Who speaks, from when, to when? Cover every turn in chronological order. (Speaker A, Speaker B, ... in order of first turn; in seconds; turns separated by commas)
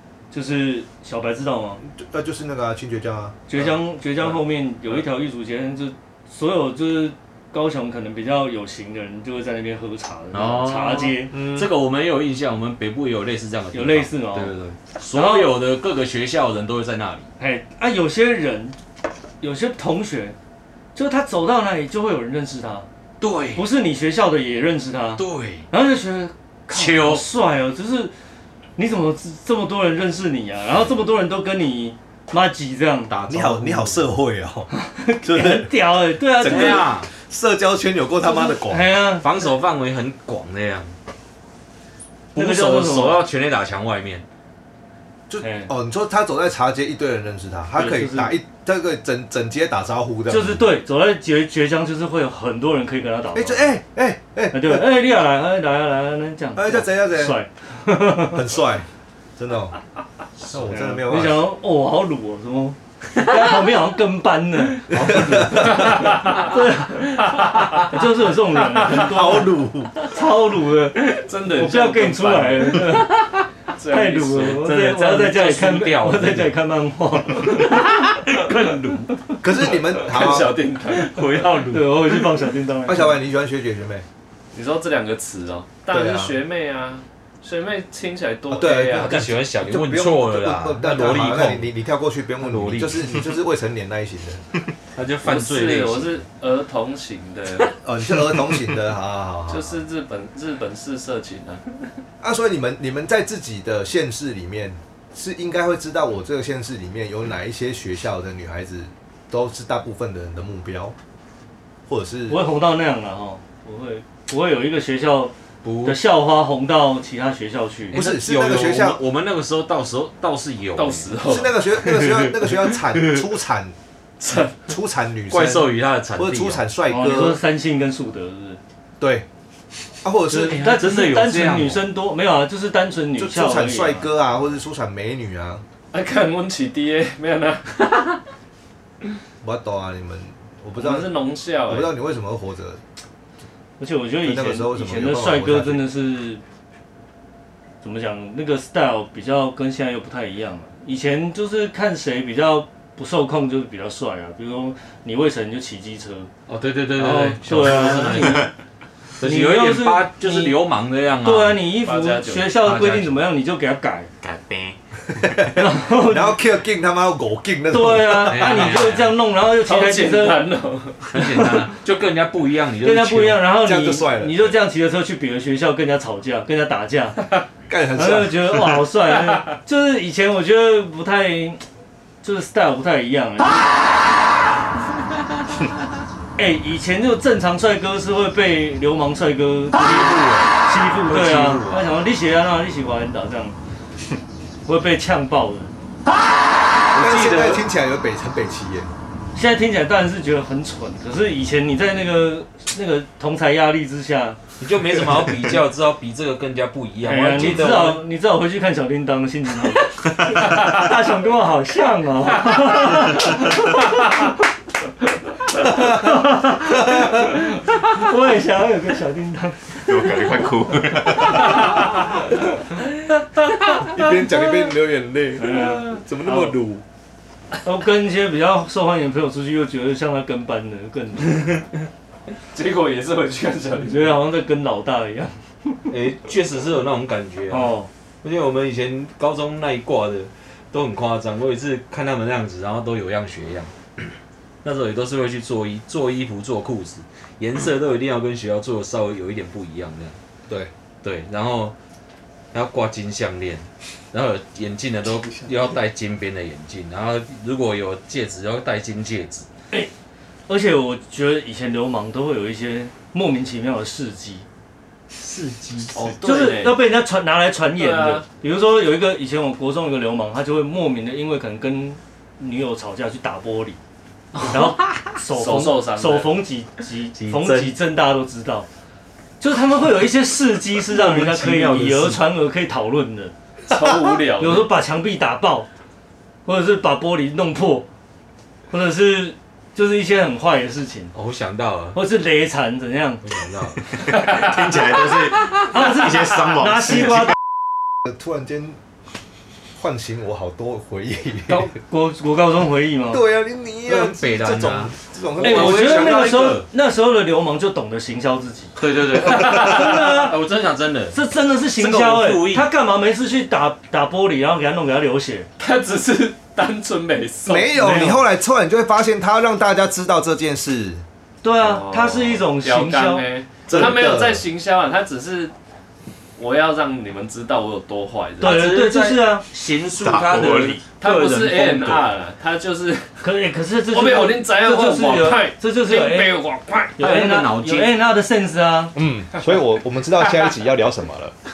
Speaker A: 0.3-1.8, Speaker B: 1.8-3.5, Speaker A: 3.5-11.4, Speaker C: 10.3-17.3, Speaker A: 13.7-14.5, Speaker A: 15.1-15.5, Speaker A: 17.4-18.8, Speaker A: 19.4-20.4, Speaker A: 20.9-22.9, Speaker C: 23.2-23.7, Speaker A: 23.5-28.1, Speaker C: 25.2-25.7, Speaker C: 26.7-27.2, Speaker A: 28.8-34.0, Speaker C: 33.1-33.5, Speaker B: 33.2-34.7, Speaker A: 34.7-36.9, Speaker B: 35.2-35.7, Speaker B: 36.4-38.9, Speaker C: 36.4-37.1, Speaker A: 38.2-39.3, Speaker C: 39.2-40.9, Speaker C: 42.3-44.2, Speaker A: 42.3-43.2, Speaker B: 45.3-50.7, Speaker A: 45.4-45.7, Speaker A: 47.7-48.4, Speaker A: 50.3-53.8, Speaker B: 53.3-54.9, Speaker A: 54.5-58.4, Speaker B: 56.5-57.4, Speaker B: 58.2-59.7, Speaker B: 60.5-61.5, Speaker A: 60.7-73.3, Speaker B: 64.9-66.0, Speaker B: 68.8-70.0, Speaker D: 71.1-72.9, Speaker D: 73.7-74.7, Speaker A: 73.9-77.9, Speaker C: 74.4-76.6, Speaker C: 77.3-79.2, Speaker B: 79.4-80.6, Speaker D: 79.7-81.3, Speaker C: 80.9-82.2, Speaker A: 81.7-83.2, Speaker B: 82.8-84.0, Speaker D: 84.5-89.3, Speaker B: 85.9-86.4, Speaker B: 88.5-94.4, Speaker C: 89.0-91.7, Speaker C: 92.4-93.2, Speaker C: 94.9-96.2, Speaker D: 95.2-97.8, Speaker B: 97.8-99.8, Speaker D: 99.5-101.6, Speaker B: 102.2-110.9, Speaker B: 111.9-112.4, Speaker A: 112.3-118.0, Speaker C: 115.6-116.0, Speaker C: 117.9-121.2, Speaker B: 117.9-119.0, Speaker D: 120.8-122.0, Speaker B: 121.2-123.7, Speaker C: 121.9-123.2, Speaker B: 124.3-127.4, Speaker C: 125.3-126.6, Speaker A: 126.9-128.6, Speaker B: 129.0-129.2, Speaker B: 130.0-130.7, Speaker C: 130.3-131.8, Speaker A: 130.5-134.1, Speaker B: 133.2-135.6, Speaker D: 135.9-138.1, Speaker B: 139.4-141.1, Speaker D: 140.8-141.9, Speaker B: 141.7-142.8, Speaker A: 143.8-146.4, Speaker B: 144.2-145.9, Speaker A: 147.8-156.3, Speaker C: 156.5-158.5, Speaker A: 156.9-158.5, Speaker C: 159.2-161.6, Speaker A: 159.2-160.6, Speaker A: 161.2-164.1, Speaker D: 161.8-162.5, Speaker C: 162.6-163.2, Speaker E: 164.2-165.5, Speaker B: 165.2-168.8, Speaker A: 165.6-166.4, Speaker A: 167.7-170.5, Speaker C: 168.2-169.2, Speaker D: 169.6-171.0, Speaker C: 171.0-173.5, Speaker A: 171.1-171.7, Speaker A: 172.8-177.2, Speaker B: 173.6-174.5, Speaker B: 177.7-178.9, Speaker A: 177.9-181.6, Speaker A: 182.2-183.7, Speaker A: 186.4-193.6, Speaker C: 189.8-190.5, Speaker C: 191.1-192.0, Speaker A: 194.7-195.7, Speaker B: 196.9-198.9, Speaker D: 196.9-197.6, Speaker A: 199.3-204.4, Speaker C: 204.6-208.1, Speaker A: 207.0-214.3, Speaker A: 215.5-220.3, Speaker B: 216.6-217.3, Speaker E: 219.7-221.9, Speaker B: 223.8-226.8, Speaker A: 225.4-226.6, Speaker A: 227.6-231.6, Speaker D: 232.5-234.1, Speaker A: 233.8-235.3, Speaker C: 235.9-244.1, Speaker A: 237.5-237.9, Speaker C: 244.6-250.2, Speaker C: 251.0-251.7, Speaker C: 252.5-259.5, Speaker A: 260.5-264.4, Speaker C: 265.1-266.1, Speaker D: 265.9-266.8, Speaker A: 266.2-273.8, Speaker D: 267.8-268.2, Speaker C: 274.3-275.1, Speaker A: 274.4-278.7, Speaker D: 275.3-276.4, Speaker C: 277.1-277.7, Speaker A: 279.4-283.3, Speaker C: 280.8-282.3, Speaker D: 283.7-284.7, Speaker A: 284.4-285.7, Speaker A: 286.4-287.9, Speaker A: 288.7-291.1, Speaker C: 291.1-292.0, Speaker A: 291.9-293.5, Speaker C: 293.2-294.1, Speaker E: 294.1-297.2, Speaker A: 295.7-297.3, Speaker B: 298.0-298.8, Speaker B: 299.8-301.7, Speaker A: 301.5-303.2, Speaker B: 303.1-306.3, Speaker C: 303.9-306.7, Speaker A: 305.4-310.4, Speaker C: 308.8-311.2, Speaker A: 311.1-315.5, Speaker C: 311.8-312.7, Speaker D: 315.6-317.9, Speaker B: 317.4-321.0, Speaker A: 317.7-318.2, Speaker A: 321.4-323.2, Speaker D: 321.6-325.5, Speaker B: 323.7-324.4, Speaker D: 326.4-328.5, Speaker C: 328.4-332.1, Speaker A: 328.4-329.4, Speaker E: 330.0-330.8, Speaker D: 331.0-333.2, Speaker A: 333.2-336.4, Speaker D: 333.9-337.0, Speaker A: 337.0-338.9, Speaker C: 337.0-337.9, Speaker B: 338.9-341.3